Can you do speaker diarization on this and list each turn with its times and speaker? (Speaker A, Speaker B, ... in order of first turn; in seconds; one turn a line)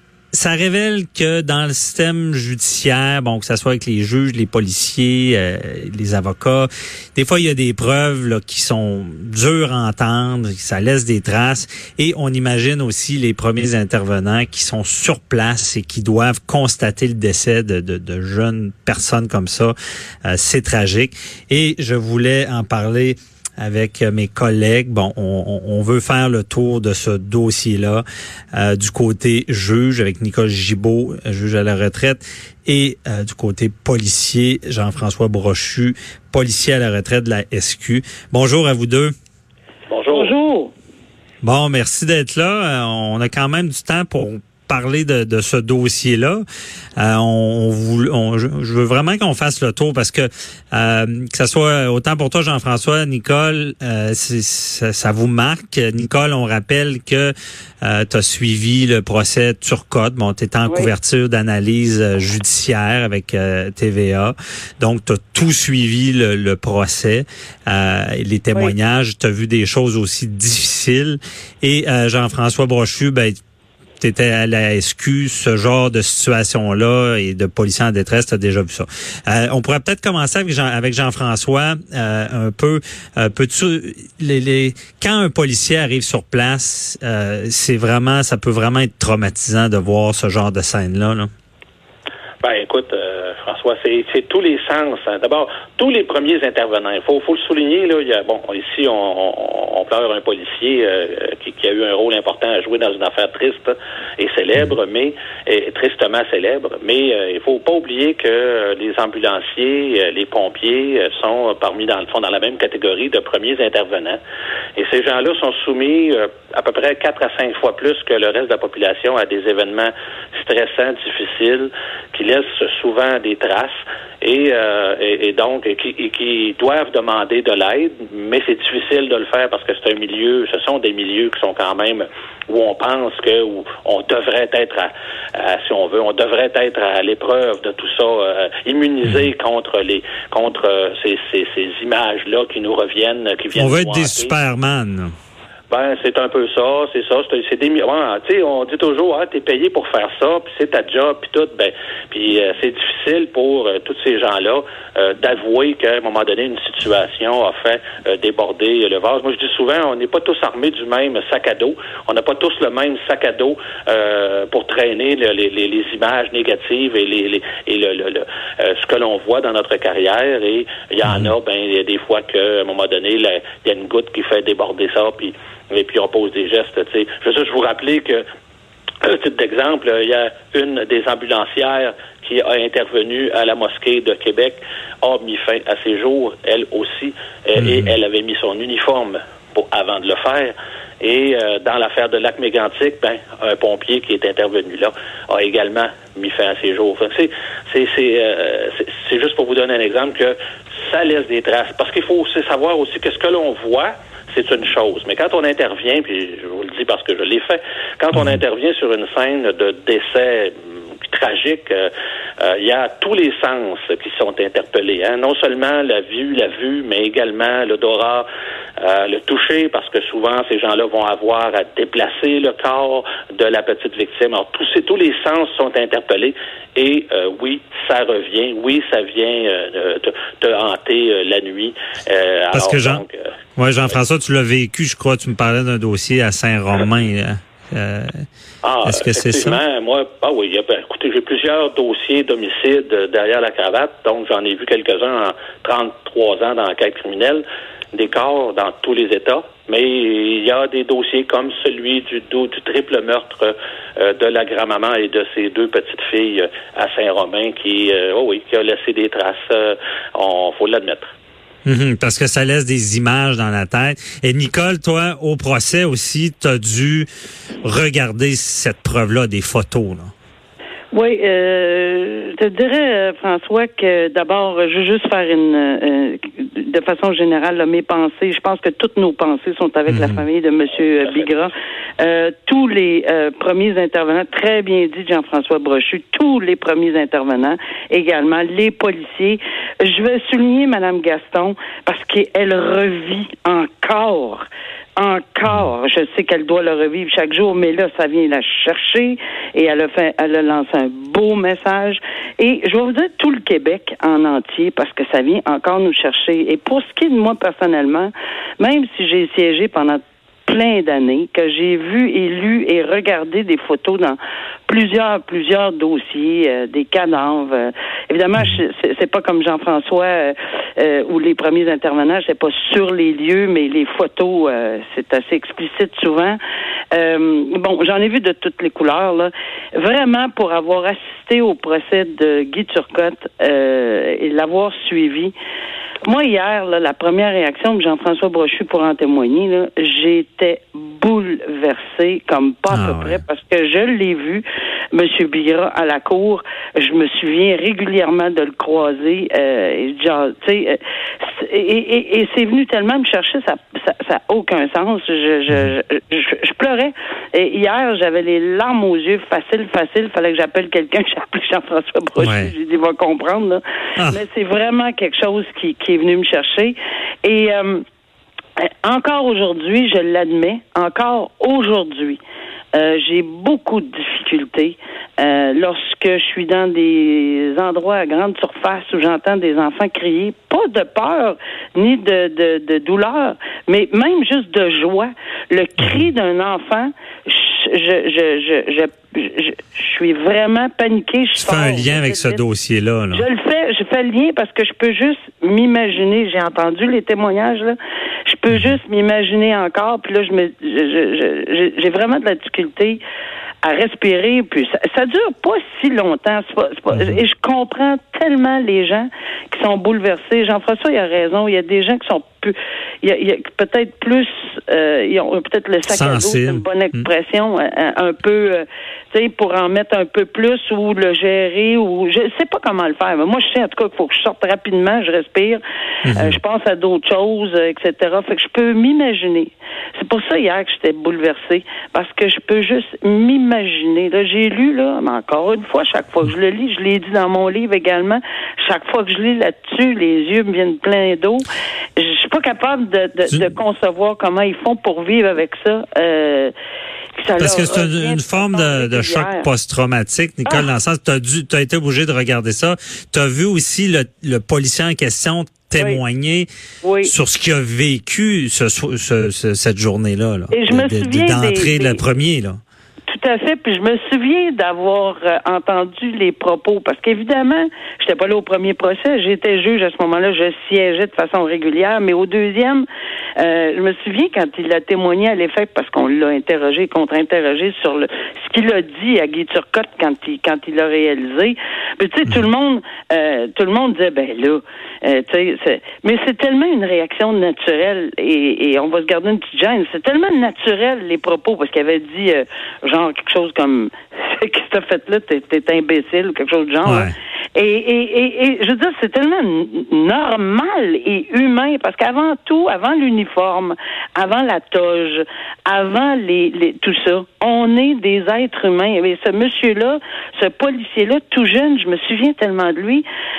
Speaker A: 0.3-39.1
Speaker B: 39.9-40.3
Speaker C: 40.1-40.7
Speaker A: 41.4-46.4
Speaker A: 47.0-73.4
Speaker C: 60.6-60.9
Speaker A: 74.0-91.3
Speaker B: 92.4-114.2
Speaker B: 114.8-144.3
Speaker A: 143.5-145.1
Speaker B: 145.7-178.2
Speaker A: 171.0-171.3
Speaker B: 179.0-210.5
Speaker A: 187.6-187.9
Speaker A: 208.1-208.4
Speaker B: 211.0-218.2
Speaker B: 218.8-233.2
Speaker A: 232.5-233.0
Speaker A: 233.6-238.2
Speaker B: 238.6-261.1
Speaker A: 238.8-239.6
Speaker A: 261.6-267.1
Speaker A: 267.6-270.1
Speaker C: 270.9-326.4
Speaker A: 279.9-280.2
Speaker C: 326.9-335.3
Speaker C: 336.0-367.8
Speaker A: 342.7-343.2
Speaker A: 362.2-362.5
Speaker C: 368.6-372.2
Speaker C: 372.7-392.4
Speaker A: 391.4-393.2
Speaker C: 393.1-403.0
Speaker A: 398.5-398.8
Speaker C: 403.6-425.6
Speaker A: 406.9-407.2
Speaker A: 415.9-417.1
Speaker A: 426.0-426.4
Speaker C: 426.1-441.4
Speaker C: 442.0-446.5
Speaker C: 447.2-449.5
Speaker A: 447.4-456.5
Speaker C: 456.8-457.1
Speaker A: 457.0-462.6
Speaker C: 460.5-462.0
Speaker C: 463.1-472.9
Speaker C: 473.4-513.0
Speaker A: 496.9-497.1